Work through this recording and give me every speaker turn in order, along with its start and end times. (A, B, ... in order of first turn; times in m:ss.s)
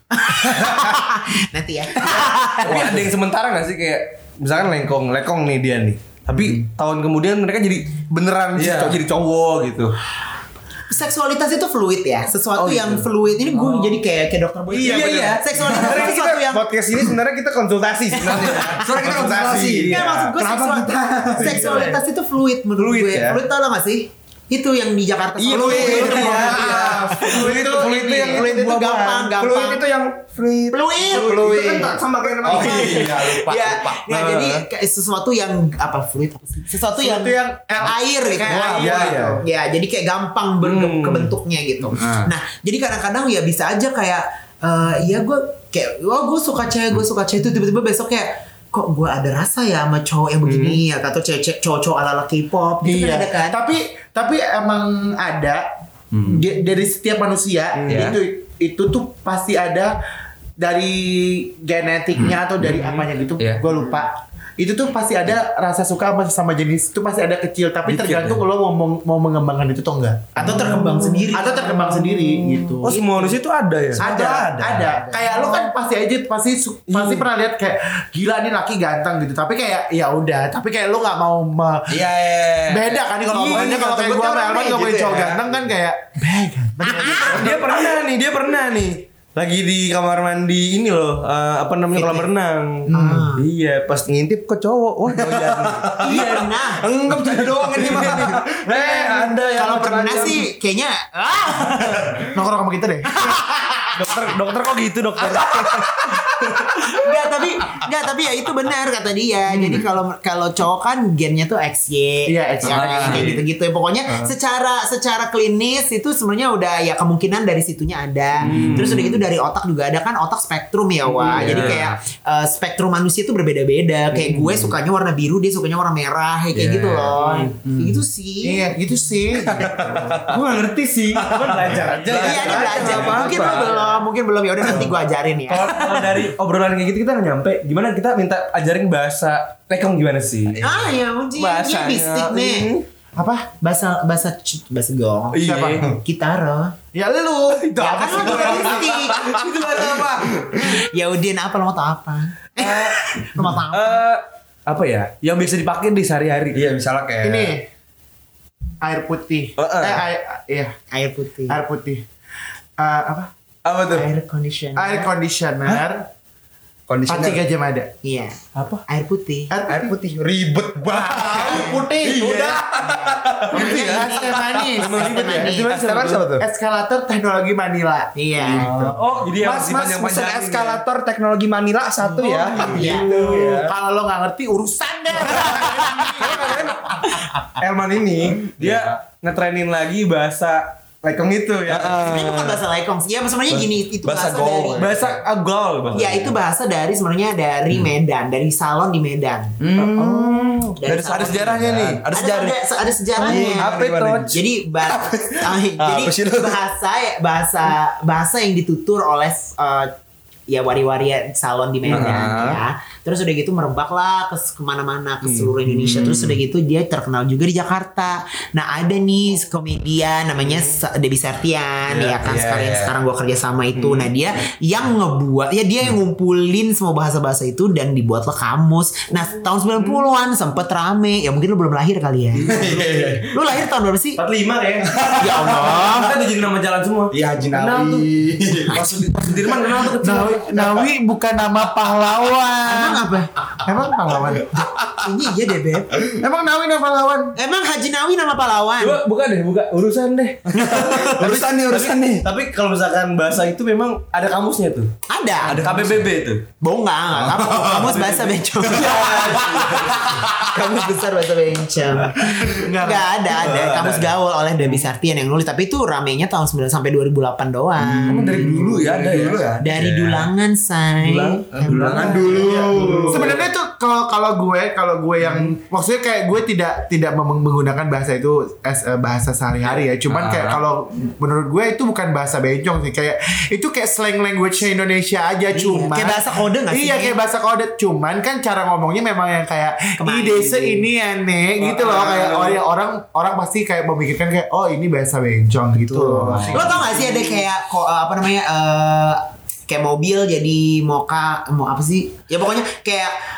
0:00.1-0:03.0 A
0:02.1-0:09.9 B
0:02.6-0:03.1 C
0:08.5-0:09.0 C
0:10.9-0:16.6 A
0:12.6-0:14.0 B
0:14.7-0:20.3 B
0:14.9-0:15.2 C
0:18.2-0:18.9 A
0:18.3-0:21.9 C
0:19.9-0:29.8 A
0:21.4-0:22.0 B
0:22.8-0:23.4 B
0:25.4-0:27.2 C
0:25.5-0:29.3 B
0:25.5-0:28.5 D
0:29.3-0:34.1 C
0:30.7-0:53.6 A
0:31.3-0:33.3 B
0:34.1-0:34.6 B
0:36.9-0:39.4 D
0:38.7-0:39.4 B
0:40.6-0:41.3 B
0:41.9-0:42.3 C
0:50.4-0:50.8 B
0:52.8-0:55.7 D
0:56.1-0:56.4 C
0:56.2-1:00.0 D
0:57.8-0:58.1 B
0:57.8-0:58.2 C
1:00.6-1:13.2 D
1:03.4-1:03.6 C
1:07.9-1:08.4 C
1:10.4-1:11.9 A
1:12.8-1:14.8 B
1:14.0-1:15.4 A
1:14.0-1:22.0 D
1:14.1-1:14.9 C
1:16.9-1:17.3 B
1:21.9-1:25.6 C
1:22.7-1:27.7 D
1:23.3-1:24.0 B
1:26.9-1:27.5 A
1:27.1-1:39.4 B
1:31.9-1:32.3 A
1:32.9-1:33.3 D
1:32.9-1:33.4 A
1:35.1-1:40.4 C
1:36.0-1:36.8 A
1:38.7-1:39.2 D
1:39.5-1:42.2 A
1:42.2-1:43.2 D
1:43.2-1:43.9 A
1:43.9-1:46.4 B
1:46.8-2:08.7 A
1:52.3-1:53.3 D
1:52.6-1:53.4 C
1:58.4-1:59.2 B
1:58.4-1:59.0 C
2:01.2-2:01.8 B
2:01.3-2:02.0 C
2:04.1-2:04.7 B
2:06.5-2:07.2 C
2:07.2-2:07.6 B
2:08.4-2:10.2 D
2:09.4-2:10.4 C
2:10.2-2:14.0 B
2:11.1-2:13.8 C
2:12.0-2:16.1 A
2:14.6-2:14.9 B
2:15.5-2:20.6 B
2:20.5-2:21.0 C
2:20.6-2:22.7 A
2:21.4-2:22.8 B
2:23.2-2:23.5 D
2:23.6-2:26.8 A
2:25.3-2:25.9 B
2:25.4-2:25.9 D
2:26.9-2:29.0 D
2:27.6-2:30.5 B
2:27.8-2:29.4 A
2:30.6-2:34.0 A
2:32.6-2:33.1 B
2:33.7-2:36.6 B
2:36.5-2:37.6 C
2:37.2-2:37.6 D
2:38.8-2:40.8 D
2:39.6-2:40.0 B
2:40.9-2:41.6 A
2:41.5-2:42.0 D
2:42.8-2:43.3 D
2:43.6-2:44.1 B
2:43.9-2:45.1 A
2:44.8-2:46.1 D
2:46.9-2:47.4 C
2:47.1-2:47.9 D
2:48.0-2:49.5 A
2:48.5-2:48.8 B
2:49.5-2:49.9 D
2:49.7-2:54.0 C
2:50.9-2:52.6 D
2:51.3-2:51.8 A
2:53.5-2:55.7 A
2:53.5-2:55.8 D
2:53.6-2:54.1 B
2:54.7-2:56.3 B
2:55.7-2:56.4 C
2:56.4-2:58.9 D
2:58.1-2:58.7 A
2:58.4-3:03.7 C
2:58.8-3:00.8 B
3:02.1-3:07.5 D
3:02.5-3:03.7 B
3:02.7-3:03.1 A
3:05.4-3:06.7 C
3:06.3-3:06.6 B
3:07.6-3:09.0 C
3:07.6-3:12.0 B
3:11.7-3:12.6 C
3:12.0-3:15.0 A
3:14.0-3:15.2 C
3:14.7-3:16.4 B
3:15.9-3:19.6 A
3:19.6-3:22.6 C
3:19.8-3:22.0 B
3:20.8-3:29.9 A
3:23.2-3:24.3 C
3:23.2-3:24.3 B
3:24.9-3:26.6 C
3:30.5-3:54.2 A
3:31.8-3:32.6 C
3:31.9-3:32.2 B
3:35.2-3:36.2 B
3:42.2-3:42.9 C
3:43.7-3:44.1 B
3:52.4-3:53.3 C
3:54.2-3:55.0 B
3:54.8-3:56.0 C
3:55.2-3:56.1 A
3:55.5-3:58.1 B
3:57.1-3:58.9 C
3:58.7-4:00.9 B
3:58.8-4:03.1 D
4:02.6-4:03.3 A
4:03.6-4:04.5 D
4:04.5-4:06.0 A
4:06.1-4:07.3 D
4:07.3-4:09.0 A
4:08.8-4:14.9 B
4:10.5-4:12.2 C
4:10.7-4:11.1 A
4:15.1-4:15.6 A
4:15.4-4:16.4 B
4:15.6-4:16.0 C
4:16.6-4:28.4 A
4:17.1-4:18.1 C
4:17.7-4:20.2 B
4:22.2-4:23.1 D
4:23.3-4:24.1 B
4:27.8-4:30.3 C
4:28.1-4:29.5 B
4:29.6-4:32.6 A
4:31.0-4:33.4 B
4:31.6-4:33.4 C
4:32.1-4:56.9 D
4:40.1-4:40.6 C
4:45.5-4:47.2 A
4:50.0-4:50.9 A
4:51.6-4:52.6 B
4:56.0-4:57.0 C
4:56.5-5:03.2 A